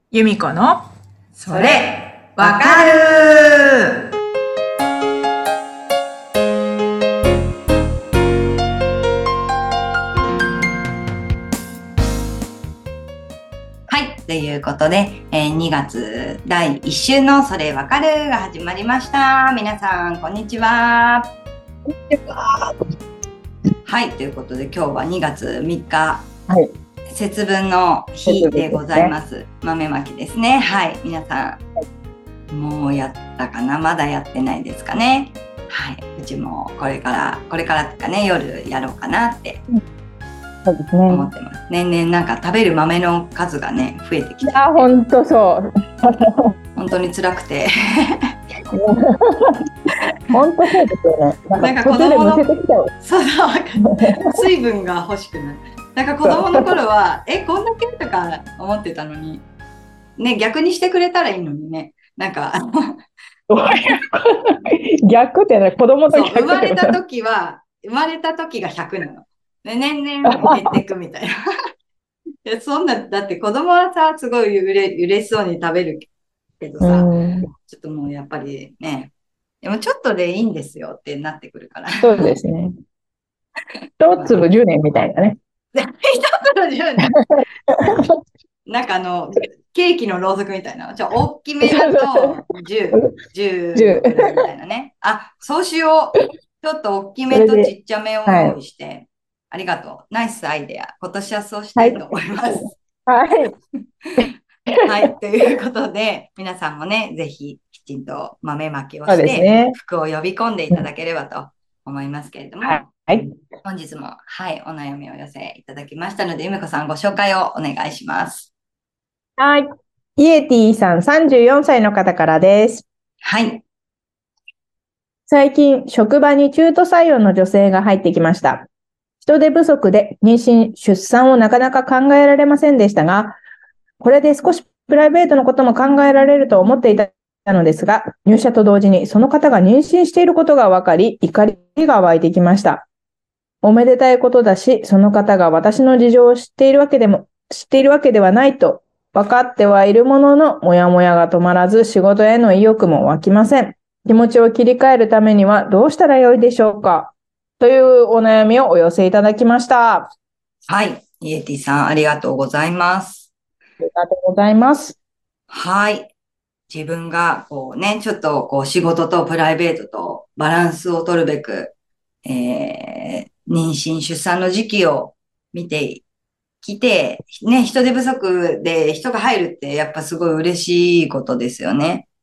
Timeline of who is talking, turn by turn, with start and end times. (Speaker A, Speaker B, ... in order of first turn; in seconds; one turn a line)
Speaker A: 0.1-0.8
Speaker A: 1.4-3.1
Speaker B: 1.5-3.5
Speaker B: 13.9-21.3
Speaker A: 22.1-22.7
Speaker B: 23.8-26.3
Speaker B: 27.1-31.6
Speaker A: 28.2-29.1
Speaker B: 32.5-39.6
Speaker A: 40.6-41.3
Speaker B: 41.1-44.9
Speaker A: 44.4-46.5
Speaker B: 46.8-48.3
Speaker A: 48.7-49.6
Speaker A: 50.3-52.9
Speaker B: 51.6-52.5
Speaker B: 53.0-59.4
Speaker A: 53.8-54.3
Speaker A: 56.2-56.7
Speaker B: 60.2-63.0
Speaker A: 63.5-67.0
Speaker B: 66.1-71.3
Speaker A: 70.2-70.7
Speaker B: 72.5-76.1
Speaker B: 76.6-77.1
Speaker A: 76.8-77.5
Speaker B: 77.7-82.3
Speaker A: 82.0-82.7
Speaker A: 84.0-85.4
Speaker B: 84.1-84.4
Speaker B: 85.7-87.0
Speaker A: 87.7-88.0
Speaker B: 88.7-102.8
Speaker A: 91.6-92.3
Speaker A: 93.7-94.4
Speaker A: 97.3-97.7
Speaker A: 98.2-98.6
Speaker A: 101.8-103.5
Speaker A: 104.2-104.8
Speaker B: 104.8-118.5
Speaker A: 109.1-109.7
Speaker A: 112.6-113.3
Speaker A: 119.4-119.6
Speaker A: 120.2-122.8
Speaker B: 123.2-123.6
Speaker A: 125.3-128.7
Speaker A: 129.2-133.4
Speaker A: 134.0-142.8
Speaker A: 143.6-160.1
Speaker B: 160.7-163.3
Speaker A: 163.8-165.0
Speaker B: 165.5-166.1
Speaker B: 166.7-171.7
Speaker B: 172.2-176.0
Speaker B: 176.6-182.1